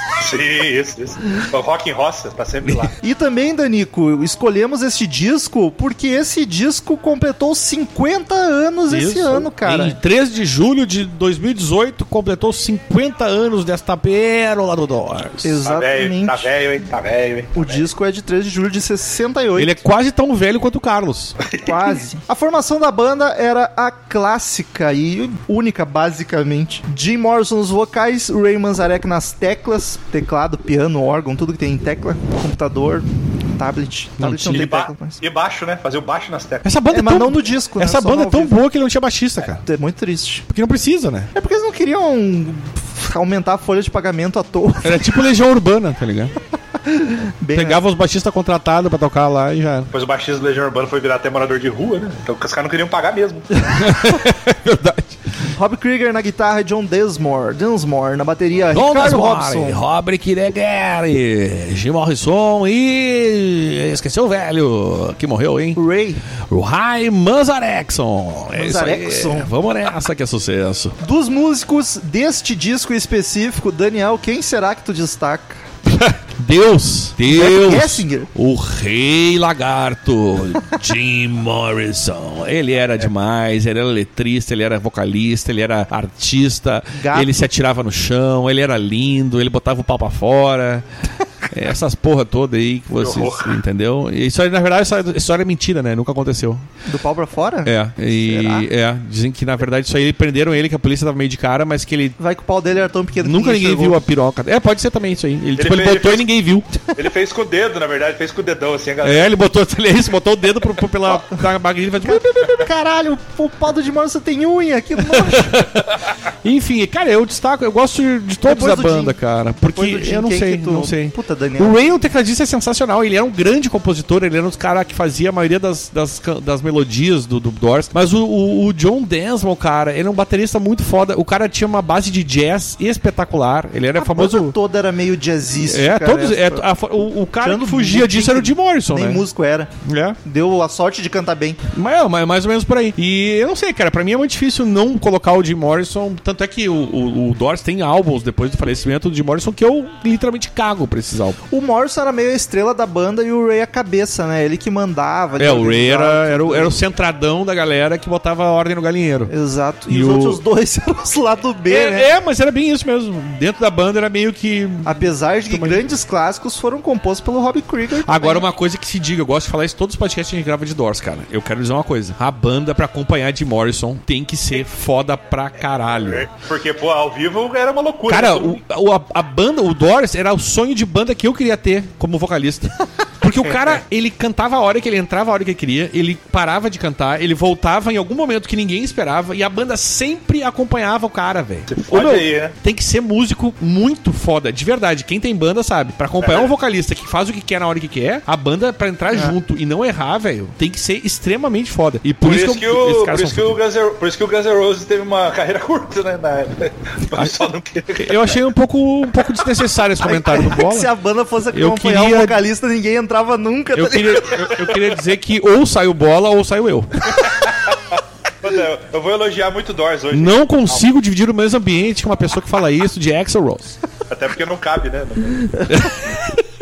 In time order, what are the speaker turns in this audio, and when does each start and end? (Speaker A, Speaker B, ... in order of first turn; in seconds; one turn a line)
Speaker A: 0.2-3.0
Speaker B: 3.0-10.0
Speaker C: 8.9-15.5
Speaker B: 15.4-16.5
Speaker A: 15.7-17.9
Speaker B: 17.6-19.8
Speaker C: 19.6-21.4
Speaker A: 21.5-21.9
Speaker B: 21.6-35.2
Speaker C: 34.2-34.7
Speaker A: 34.5-36.7
Speaker C: 36.6-39.6
Speaker B: 36.9-38.6
Speaker B: 39.6-40.5
Speaker C: 40.5-41.3
Speaker B: 41.4-45.1
Speaker C: 44.8-46.4
Speaker B: 46.8-47.8
Speaker C: 47.5-49.9
Speaker A: 49.9-53.5
Speaker C: 53.7-55.2
Speaker B: 55.5-59.8
Speaker C: 58.7-65.8
Speaker B: 65.8-66.2
Speaker C: 66.5-71.0
Speaker B: 68.5-69.5
Speaker B: 71.0-75.6
Speaker C: 75.9-90.9
Speaker B: 77.3-78.3
Speaker B: 87.0-87.4
Speaker C: 91.4-96.7
Speaker A: 92.9-93.5
Speaker B: 96.8-98.7
Speaker C: 97.6-102.2
Speaker B: 102.2-104.0
Speaker C: 103.2-106.7
Speaker A: 105.6-106.3
Speaker A: 106.9-109.3
Speaker C: 109.0-112.6
Speaker B: 111.1-111.4
Speaker B: 112.0-115.7
Speaker C: 115.2-134.6
Speaker B: 118.4-121.8
Speaker B: 134.0-136.7
Speaker C: 135.7-139.2
Speaker B: 137.4-139.7
Speaker C: 139.8-140.2
Speaker B: 140.2-141.6
Speaker C: 141.7-151.4
Speaker B: 151.5-156.8
Speaker C: 155.4-159.3
Speaker B: 159.3-162.1
Speaker C: 159.9-160.4
Speaker C: 161.7-165.8
Speaker B: 164.8-168.5
Speaker C: 168.1-176.3
Speaker A: 175.9-178.6
Speaker C: 178.1-203.6
Speaker A: 191.7-192.6
Speaker A: 196.2-196.5
Speaker A: 202.2-208.4
Speaker C: 207.2-207.4
Speaker C: 207.9-210.9
Speaker B: 210.0-214.4
Speaker C: 211.5-212.4
Speaker C: 213.8-217.3
Speaker A: 217.2-220.8
Speaker C: 220.1-223.8
Speaker A: 224.1-225.6
Speaker C: 225.7-226.4